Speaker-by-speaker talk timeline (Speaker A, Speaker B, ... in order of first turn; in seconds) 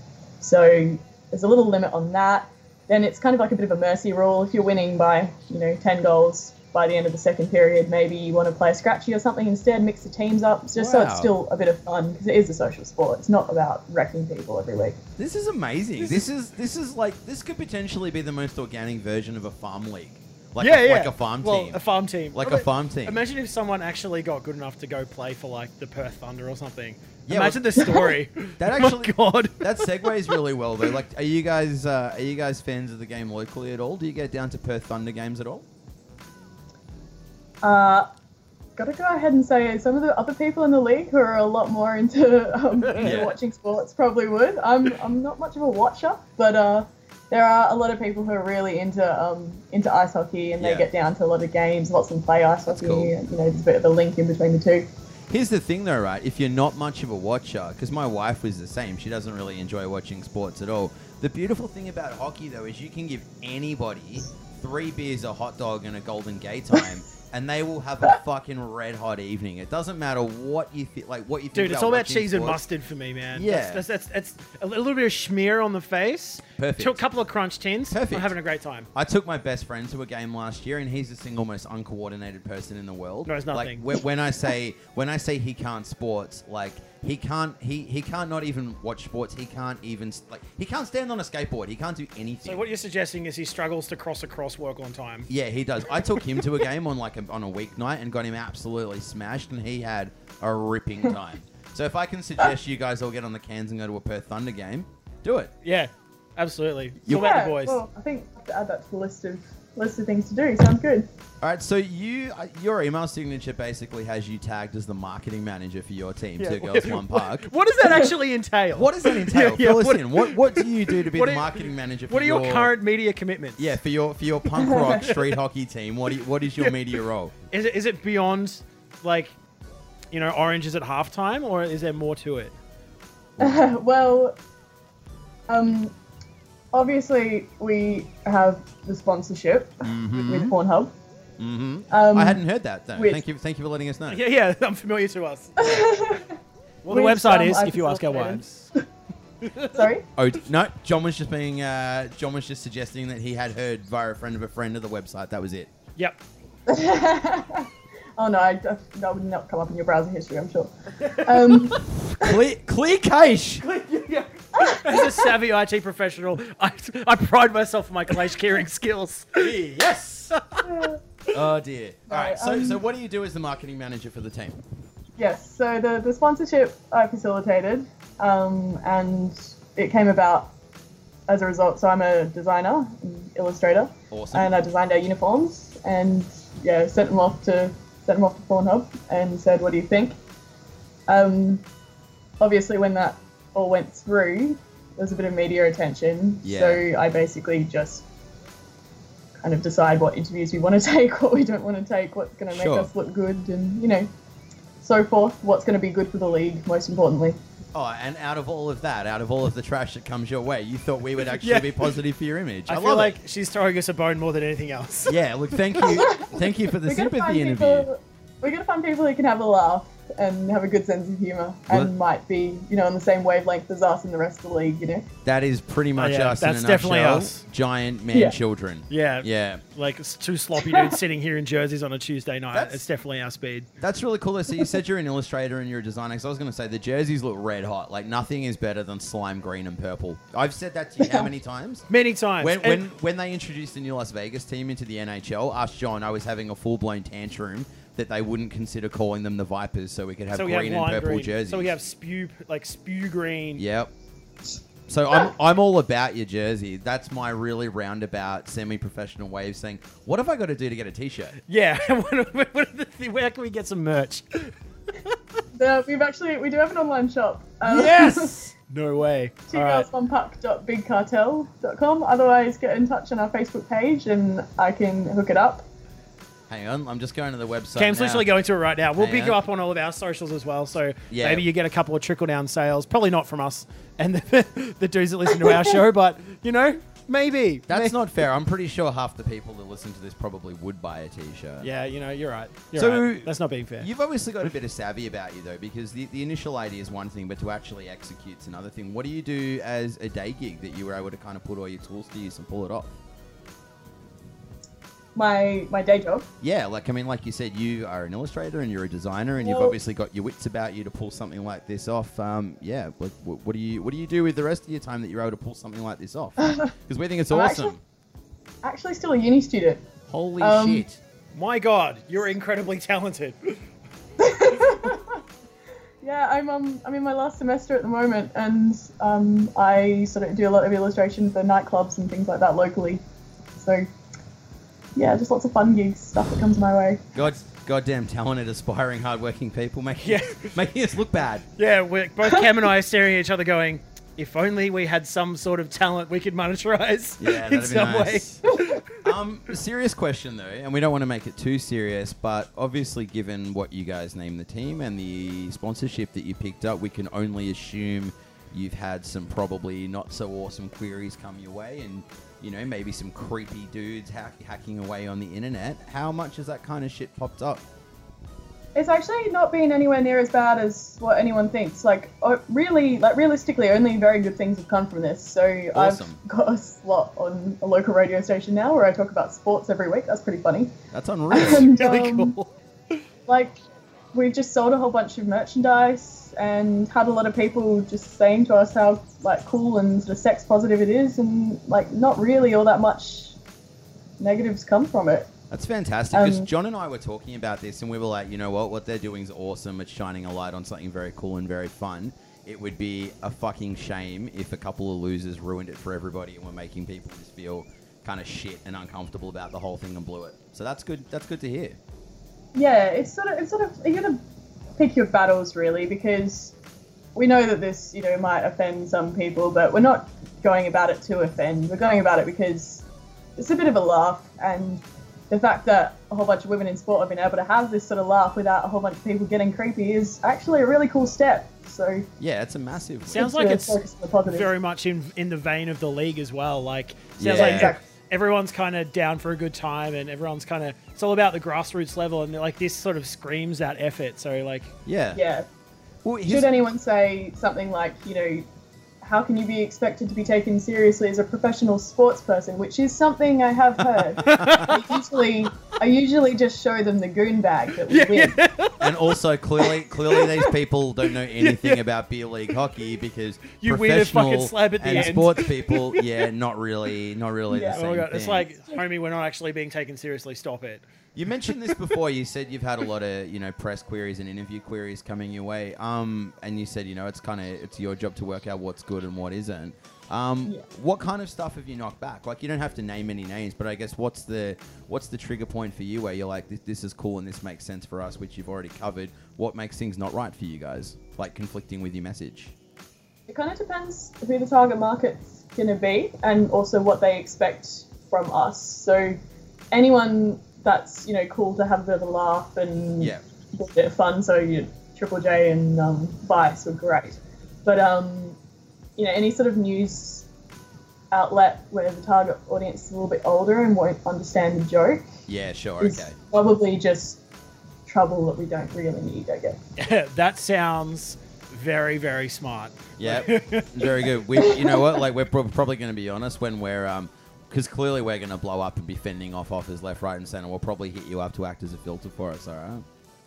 Speaker A: 0.4-15.0, 37.6-38.1, 38.8-54.9, 107.1-111.1, 124.6-125.1, 133.4-134.4, 135.5-135.9, 136.7-140.9, 141.9-142.4, 142.9-143.2, 145.6-146.4, 146.9-148.4, 149.7-150.1, 156.7-162.4, 164.6-165.3, 170.7-171.0, 172.1-172.8, 175.2-180.5, 181.3-190.1, 191.1-191.6, 192.4-198.0, 199.4-204.1, 204.8-207.4, 215.9-225.1, 230.6-231.0, 241.0-241.3, 265.5-268.3, 269.5-275.6, 305.1-306.2, 309.4-309.8, 316.4-316.7, 317.3-317.8, 318.6-319.8, 320.4-320.9, 324.2-325.2, 326.0-333.0, 333.6-333.9, 334.9-337.0, 368.7-380.7, 381.3-382.3, 383.3-383.6, 384.1-393.4, 394.2-395.3, 396.1-396.5, 412.5-414.2, 414.8-416.5, 417.1-422.9, 423.4-432.1, 433.1-434.5, 437.3-437.8, 445.1-445.4, 446.2-448.5, 449.0-458.4, 467.5-467.8, 493.3-499.2, 499.7-508.4, 509.0-510.3, 511.1-515.1, 515.8-517.2, 517.9-519.6, 524.4-525.0
Speaker B: 10.8-11.3, 15.2-21.8, 22.3-23.2, 27.3-27.8, 28.6-35.6, 43.0-43.3, 50.6-50.9, 52.7-53.1, 55.3-72.6, 73.3-73.8, 76.6-77.0, 77.9-78.3, 78.9-92.6, 95.3-105.5, 107.0-107.3, 111.4-117.5, 118.7-122.7, 123.6-127.3, 139.8-140.5, 141.4-144.2, 150.2-155.7, 162.2-163.6, 169.4-169.8, 171.3-174.6, 184.1-184.5, 196.4-196.8, 202.5-202.9, 207.7-213.1, 215.1-217.9, 225.2-229.6, 232.5-232.8, 233.8-241.9, 242.4-251.7, 253.6-253.9, 254.9-261.4, 276.5-278.3, 279.0-279.4, 281.1-281.4, 287.7-291.7, 292.7-302.9, 306.4-317.8, 320.1-321.0, 337.1-341.4, 347.2-348.4, 348.9-367.6, 375.7-376.2, 380.9-381.7, 395.5-411.8, 432.2-433.3, 437.2-437.7, 444.9-445.2, 446.0-446.5, 454.3-454.7, 458.8-468.5, 471.1-492.5, 515.3-516.1, 523.0-532.8
Speaker C: 20.6-30.3, 42.8-43.2, 71.5-78.9, 83.2-84.0, 92.4-95.3, 105.6-107.8, 116.4-123.8, 127.5-129.3, 130.1-132.6, 144.1-145.9, 146.8-148.7, 149.4-149.8, 161.0-161.8, 163.6-170.9, 211.4-211.9, 212.7-215.9, 226.0-227.4, 228.9-233.7, 241.9-242.8, 250.3-253.6, 261.5-265.2, 267.6-269.9, 277.8-288.0, 291.6-293.9, 321.3-323.6, 340.0-340.6, 341.6-348.9, 381.4-382.5, 433.1-433.8, 434.3-444.8, 454.0-455.0, 457.9-460.5, 461.3-461.8, 463.6-466.0, 467.7-470.8, 519.8-524.1